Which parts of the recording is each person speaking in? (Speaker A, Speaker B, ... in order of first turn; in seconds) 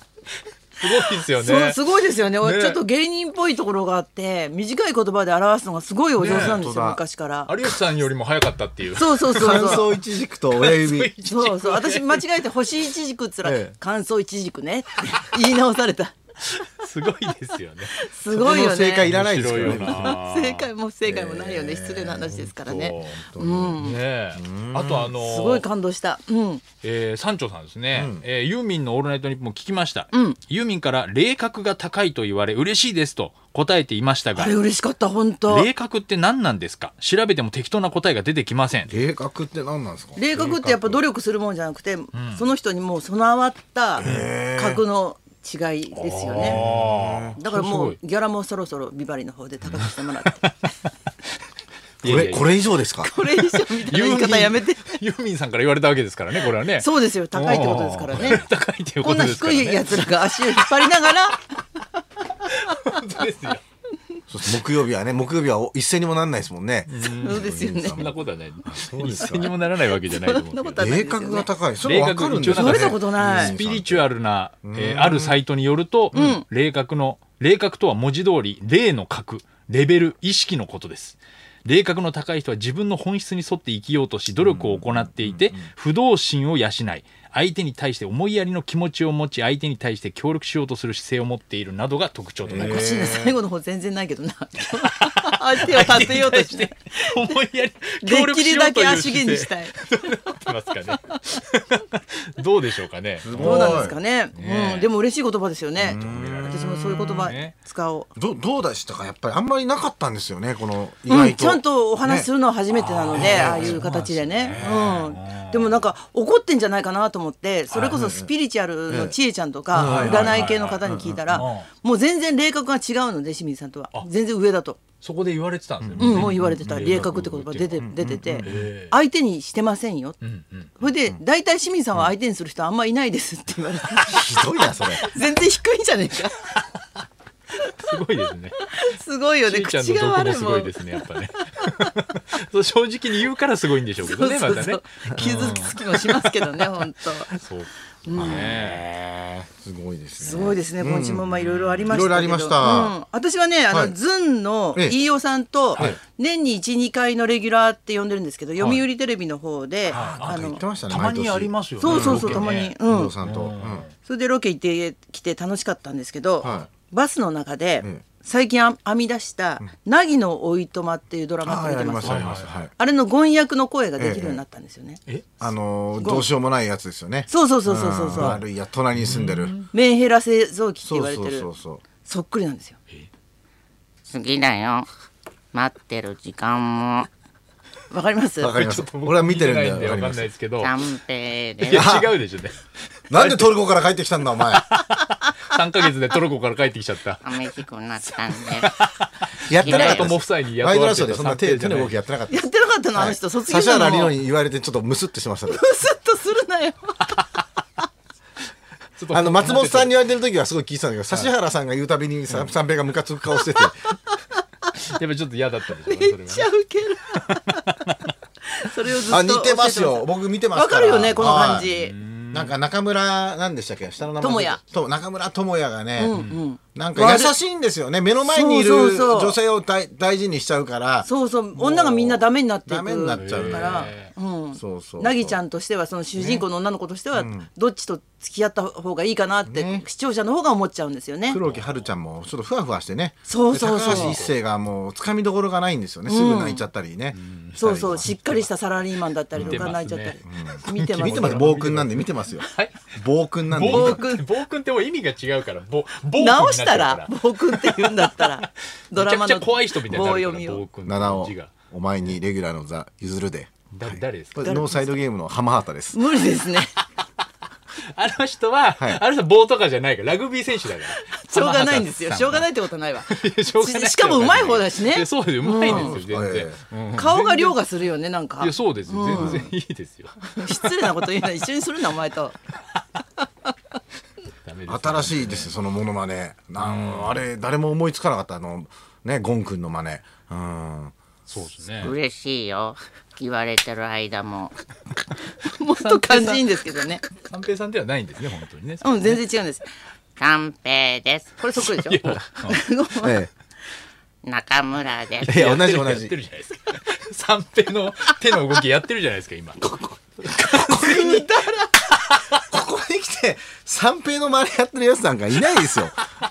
Speaker A: 0.8-1.8, 2.4-2.8, 6.2-6.6, 7.5-10.0, 10.5-12.2, 16.5-18.0, 19.0-20.7, 22.6-23.2, 23.8-25.6, 26.8-34.6, 35.5-39.0, 42.1-42.4, 44.0-44.3, 46.0-48.0, 49.6-49.9, 52.0-52.5, 53.2-61.1, 62.4-63.6, 66.9-70.9, 71.8-92.9, 94.8-103.8, 104.3-104.9, 105.8-107.5, 112.8-115.8, 117.7-118.0, 119.7-121.7, 125.0-127.8, 128.4-128.9, 130.2-130.8, 137.8-138.7, 139.4-148.9, 151.3-151.9, 158.6-158.8, 159.9-163.9, 172.0-172.6, 175.1-175.3, 178.9-179.7, 188.5-190.9, 191.6-192.6, 193.1-193.5, 194.5-197.4, 198.0-201.9, 209.0-210.0, 214.7-216.5, 217.2-218.1, 221.7-222.5, 226.1-226.4, 233.2-234.1, 241.5-241.9, 243.8-244.4, 247.1-247.6, 249.3-252.9, 253.5-261.5, 263.7-264.5, 267.9-272.5, 273.1-277.6, 278.4-281.1, 284.4-285.6, 286.6-287.2, 291.3-292.0, 295.8-296.4, 297.2-299.2, 301.6-302.6, 305.2-311.2
Speaker B: 0.9-7.5, 8.9-9.9, 11.3-16.1, 18.0-19.1, 19.6-24.0, 25.2-26.6, 30.1-30.4, 34.4-35.7, 40.2-46.6, 47.4-50.5, 53.0-55.0, 56.8-58.4, 59.0-61.8, 67.2-68.0, 69.3-71.5, 72.5-73.5, 76.1-76.5, 92.6-97.3, 98.0-99.7, 103.4-108.1, 111.1-124.8, 126.0-130.2, 130.8-136.6, 138.7-140.8, 144.0-147.3, 148.1-148.6, 150.2-160.6, 161.8-163.1, 164.1-175.0, 176.0-176.3, 177.3-178.4, 179.7-181.5, 182.0-182.8, 187.9-188.5, 202.3-204.2, 205.5-207.2, 215.9-217.6, 218.5-221.9, 224.2-224.6, 226.0-227.3, 228.2-229.4, 231.1-241.4, 243.3-244.2, 246.1-246.7, 247.6-251.5, 253.7-254.3, 256.2-260.7, 264.4-265.0, 265.9-266.7, 271.0-275.9, 276.9-279.5, 280.4-282.4, 295.4-297.0, 298.8-299.7, 301.4-303.2, 310.4-311.9
Speaker C: 6.2-7.0, 9.3-11.1, 13.4-13.8, 18.3-20.2, 21.0-23.8, 24.3-25.1, 27.9-28.2, 38.9-41.0, 44.0-44.8, 46.4-47.4, 52.0-53.1, 64.3-69.5, 70.8-74.1, 74.6-75.4, 84.4-85.7, 92.5-93.3, 103.2-104.0, 105.8-107.3, 108.2-112.3, 113.2-113.8, 117.8-118.3, 118.9-119.2, 119.7-121.5, 125.8-126.4, 127.8-128.6, 134.1-135.1, 148.1-153.0, 153.7-154.0, 159.9-163.9, 166.4-166.7, 171.4-172.7, 174.0-174.4, 175.4-179.6, 180.8-181.8, 188.4-190.3, 191.7-192.2, 193.1-194.7, 199.5-205.6, 209.1-213.8, 219.1-221.7, 222.3-226.2, 226.8-233.9, 234.6-235.4, 236.2-236.5, 237.1-237.5, 239.5-239.8, 241.3-248.3, 249.3-254.0, 260.9-266.0, 268.8-269.0, 275.7-276.6, 284.7-290.9, 303.0-303.3, 305.2-306.2, 312.4-316.0
Speaker D: 184.1-184.9, 185.5-187.1, 190.6-191.9, 197.2-198.7, 199.6-200.2, 291.8-294.6, 300.2-301.4, 304.2-305.3